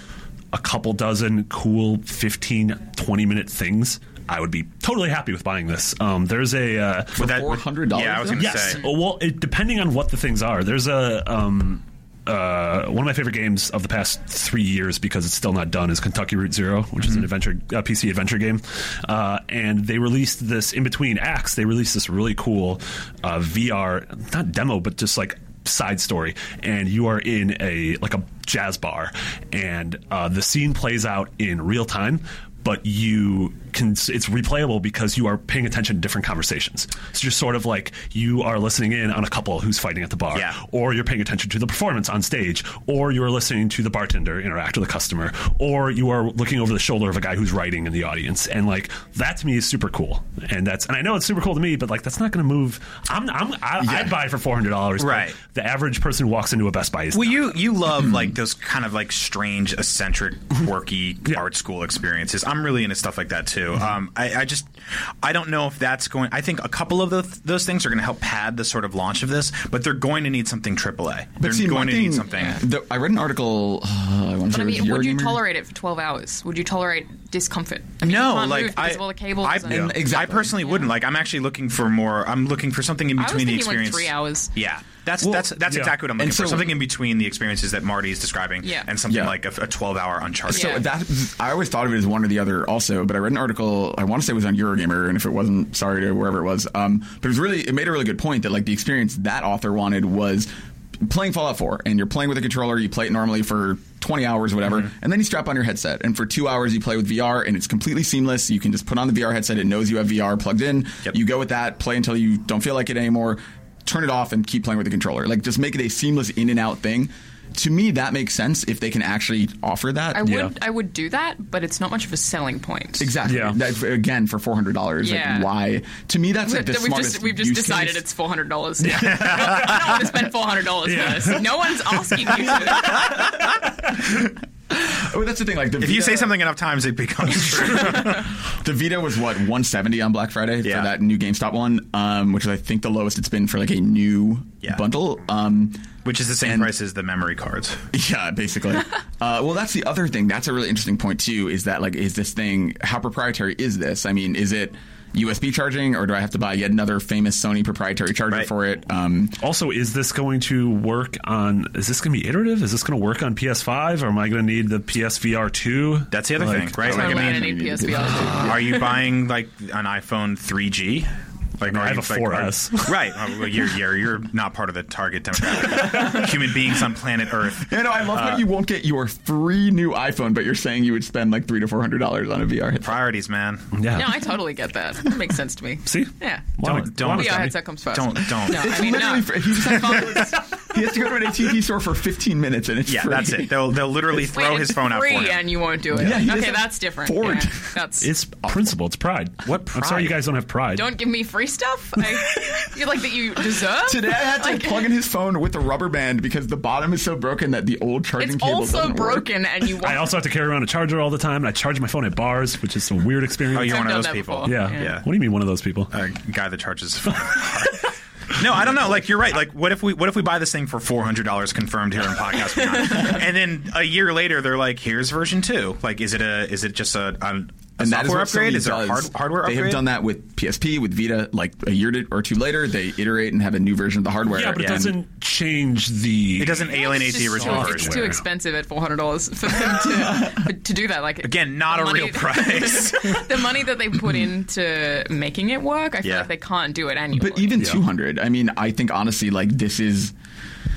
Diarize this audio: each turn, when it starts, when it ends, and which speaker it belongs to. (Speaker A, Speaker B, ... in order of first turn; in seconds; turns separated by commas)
Speaker A: 0.5-7.2, Speaker B: 7.1-8.8, Speaker C: 7.2-8.8, Speaker A: 8.3-57.6, Speaker C: 40.3-40.6, Speaker B: 53.8-54.2, Speaker C: 55.0-55.4, Speaker C: 57.1-72.6, Speaker B: 58.0-58.4, Speaker B: 71.4-75.4, Speaker D: 72.3-72.6, Speaker D: 74.5-80.9, Speaker C: 78.0-90.8, Speaker B: 79.7-80.6, Speaker D: 83.2-84.5, Speaker B: 85.2-86.8, Speaker A: 85.7-85.9, Speaker D: 88.6-88.9, Speaker B: 89.1-89.4, Speaker B: 90.5-100.5, Speaker D: 90.5-90.9, Speaker B: 101.0-120.4, Speaker D: 120.1-123.1, Speaker A: 120.2-120.5, Speaker B: 123.0-128.1, Speaker A: 123.2-123.6, Speaker D: 125.0-125.5, Speaker D: 126.4-133.1, Speaker A: 128.8-130.0, Speaker C: 129.3-129.7, Speaker A: 130.8-131.7, Speaker C: 133.0-133.2, Speaker B: 134.1-136.4, Speaker C: 135.8-138.3, Speaker B: 138.0-145.9, Speaker C: 140.6-140.9, Speaker C: 146.1-147.8, Speaker B: 146.4-146.7, Speaker B: 147.9-159.4, Speaker A: 159.4-167.0, Speaker C: 166.1-167.6, Speaker B: 166.8-168.9, Speaker D: 166.9-168.5, Speaker A: 168.2-168.4, Speaker C: 168.4-178.5, Speaker A: 171.7-173.0, Speaker B: 175.7-176.2, Speaker B: 177.6-183.1, Speaker C: 182.8-183.7, Speaker A: 183.7-184.2, Speaker D: 183.9-190.5, Speaker A: 185.9-187.6, Speaker C: 186.6-188.9, Speaker B: 188.5-194.2, Speaker C: 192.9-195.6, Speaker D: 194.3-198.1, Speaker B: 195.9-197.8, Speaker A: 198.0-200.9, Speaker C: 199.4-200.2, Speaker D: 200.7-204.9, Speaker B: 203.8-209.3, Speaker D: 208.2-210.1, Speaker A: 209.8-215.9, Speaker C: 213.5-215.0, Speaker D: 213.6-215.0, Speaker C: 215.9-229.8, Speaker D: 222.8-223.2, Speaker B: 227.8-235.0, Speaker A: 234.3-238.2, Speaker C: 236.4-238.1, Speaker D: 236.7-247.6, Speaker B: 239.8-240.4, Speaker C: 241.2-243.2, Speaker C: 246.0-246.3, Speaker B: 247.1-250.1